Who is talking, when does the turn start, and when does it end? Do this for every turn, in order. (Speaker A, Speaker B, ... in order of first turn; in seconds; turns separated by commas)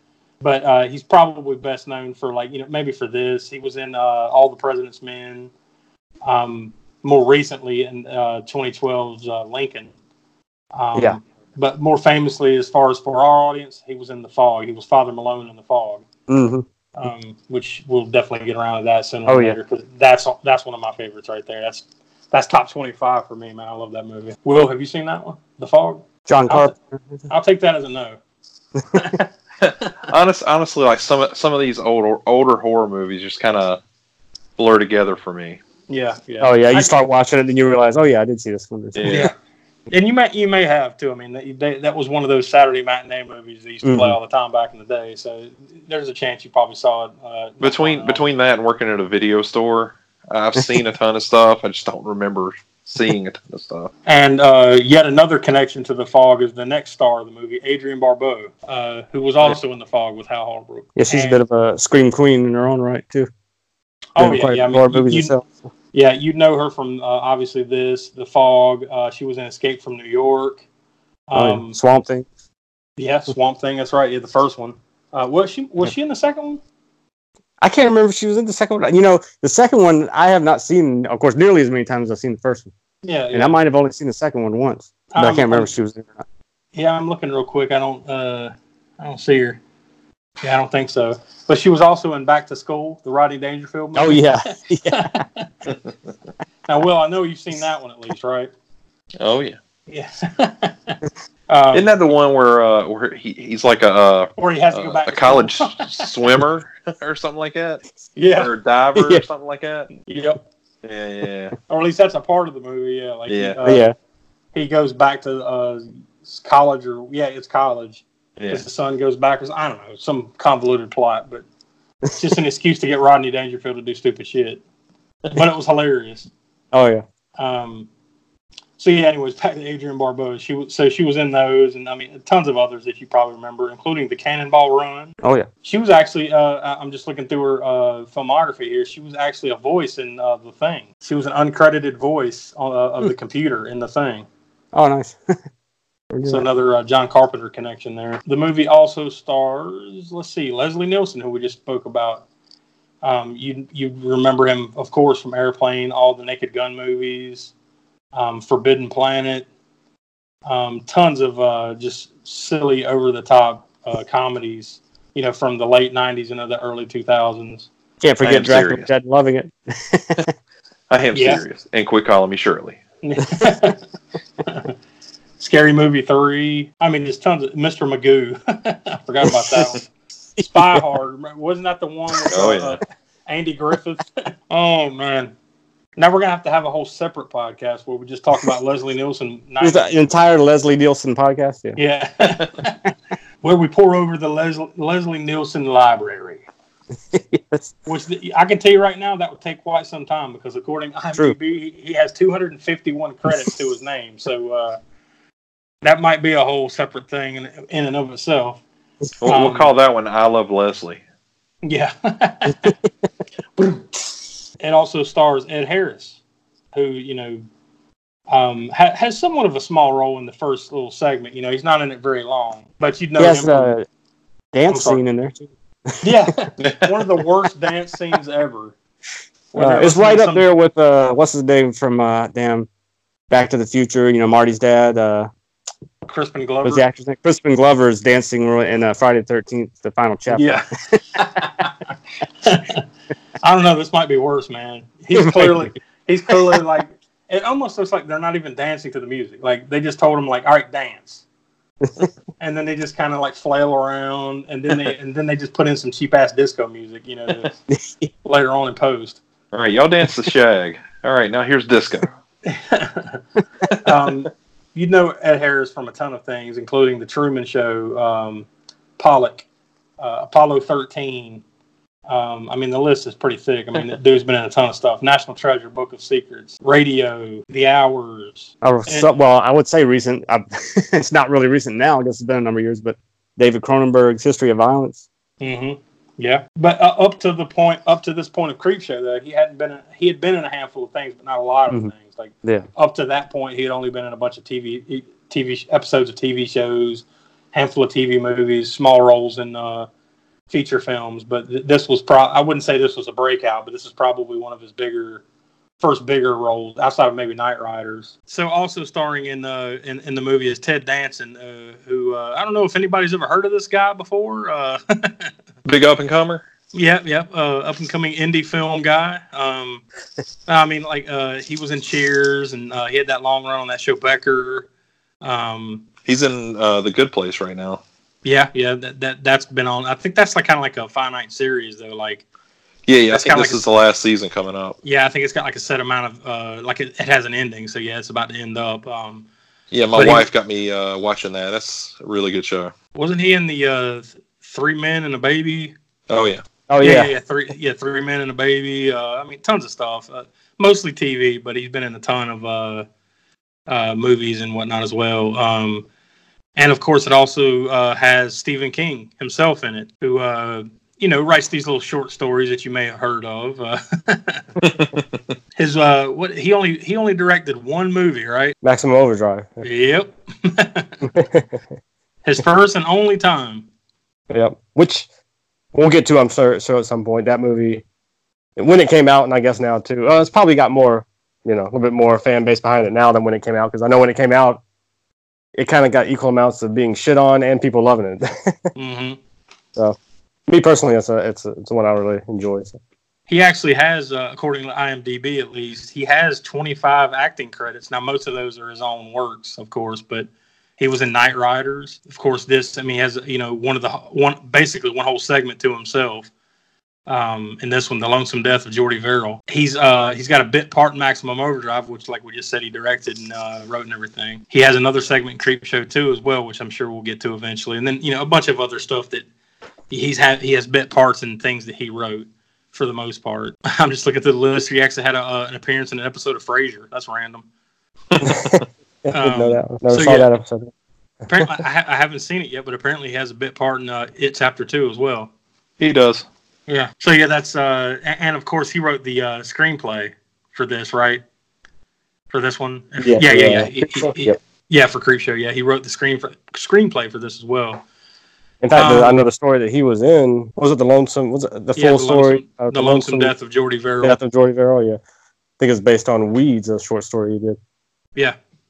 Speaker A: 0.4-5.5, Speaker A: 6.2-9.9, Speaker A: 10.7-16.0, Speaker B: 16.3-16.6, Speaker A: 16.9-26.7, Speaker B: 19.3-19.6, Speaker B: 26.3-26.8, Speaker A: 27.3-28.2, Speaker A: 28.9-29.3, Speaker C: 30.1-33.8, Speaker C: 34.6-35.6, Speaker A: 35.9-37.0, Speaker B: 36.4-39.0, Speaker C: 39.0-39.3, Speaker A: 39.1-39.3, Speaker A: 39.9-48.2, Speaker B: 43.8-44.2, Speaker C: 47.6-53.9, Speaker A: 54.0-61.4, Speaker B: 61.0-63.3, Speaker A: 64.2-65.3, Speaker B: 64.2-65.5, Speaker A: 65.9-70.6, Speaker A: 71.3-71.8, Speaker B: 71.3-72.2, Speaker A: 73.0-76.6, Speaker B: 77.6-82.7, Speaker A: 83.0-83.6, Speaker B: 83.3-86.2, Speaker A: 85.1-85.7, Speaker A: 86.7-89.6, Speaker A: 90.4-95.5, Speaker B: 93.9-95.2, Speaker A: 96.7-98.5, Speaker C: 99.2-99.6, Speaker A: 99.9-101.9, Speaker C: 101.7-107.8, Speaker A: 104.4-106.0, Speaker A: 108.2-108.5, Speaker C: 108.4-109.9, Speaker A: 110.0-110.4, Speaker C: 110.8-111.5, Speaker A: 111.7-113.9, Speaker C: 113.3-113.6, Speaker B: 113.6-113.9, Speaker A: 114.5-121.4, Speaker C: 118.4-118.6, Speaker A: 122.2-124.6, Speaker A: 125.3-126.3, Speaker B: 126.7-127.0, Speaker A: 127.4-127.9, Speaker A: 128.8-144.2, Speaker B: 144.7-145.2, Speaker B: 146.1-146.4, Speaker A: 146.2-152.2, Speaker A: 153.0-157.5, Speaker A: 158.1-159.5, Speaker A: 160.4-167.7, Speaker B: 168.0-170.0, Speaker C: 168.2-168.9, Speaker C: 170.9-172.8, Speaker A: 171.1-171.4, Speaker A: 173.0-173.8, Speaker A: 174.4-174.7, Speaker A: 175.4-179.8, Speaker A: 180.4-185.3, Speaker C: 182.3-182.8, Speaker A: 186.0-190.0, Speaker B: 189.6-191.8, Speaker A: 191.8-192.9, Speaker A: 193.4-196.4, Speaker B: 197.1-197.6, Speaker A: 197.9-204.8, Speaker A: 205.8-208.6, Speaker C: 209.2-211.0, Speaker A: 209.2-209.7, Speaker A: 211.6-212.7, Speaker A: 214.6-216.2, Speaker A: 216.7-217.4, Speaker A: 218.3-223.7, Speaker B: 223.2-223.8, Speaker B: 224.5-225.9, Speaker A: 224.7-225.0, Speaker A: 226.0-228.7, Speaker C: 226.6-226.9, Speaker A: 229.5-230.4, Speaker B: 229.6-232.7, Speaker B: 233.3-235.3, Speaker A: 236.0-236.9, Speaker B: 236.6-240.6, Speaker A: 240.3-241.7, Speaker A: 242.4-242.8, Speaker A: 243.4-251.2, Speaker B: 245.1-245.7, Speaker A: 252.4-257.5, Speaker B: 257.8-258.0, Speaker A: 258.2-259.2, Speaker C: 259.5-262.1, Speaker A: 262.4-263.2, Speaker A: 263.8-268.5, Speaker A: 269.0-269.4, Speaker A: 270.0-271.4, Speaker A: 272.1-279.1, Speaker B: 278.6-285.0, Speaker A: 285.4-299.9, Speaker A: 300.5-305.2, Speaker A: 305.8-315.3, Speaker C: 315.6-316.4, Speaker A: 316.7-319.8, Speaker A: 320.5-324.7, Speaker A: 325.2-325.9, Speaker C: 326.1-327.8, Speaker A: 328.2-332.2, Speaker C: 332.9-334.8, Speaker A: 333.1-333.6, Speaker A: 334.8-339.2, Speaker C: 339.7-342.7, Speaker A: 339.9-340.3, Speaker A: 342.9-345.7, Speaker C: 346.1-346.4, Speaker B: 346.7-347.1, Speaker A: 346.8-352.9, Speaker A: 353.7-355.9, Speaker A: 356.6-364.4, Speaker C: 364.6-365.0, Speaker A: 365.6-368.6, Speaker B: 368.6-369.6, Speaker A: 369.6-371.1, Speaker B: 371.0-371.5, Speaker A: 372.2-373.7, Speaker B: 374.3-375.1, Speaker B: 375.7-377.8, Speaker B: 378.6-384.6, Speaker B: 385.5-388.6, Speaker A: 388.8-389.2, Speaker B: 390.5-392.8, Speaker A: 393.3-406.3, Speaker A: 407.1-419.2, Speaker A: 419.9-427.4, Speaker C: 428.1-428.6, Speaker B: 428.2-430.7, Speaker A: 429.1-430.3, Speaker A: 431.3-435.3, Speaker B: 431.3-431.6, Speaker C: 435.8-436.2, Speaker A: 436.7-441.2, Speaker A: 442.3-447.8, Speaker B: 443.0-444.4, Speaker B: 448.6-453.3, Speaker A: 448.8-449.2, Speaker A: 451.7-454.2, Speaker B: 454.0-455.0, Speaker B: 455.6-457.6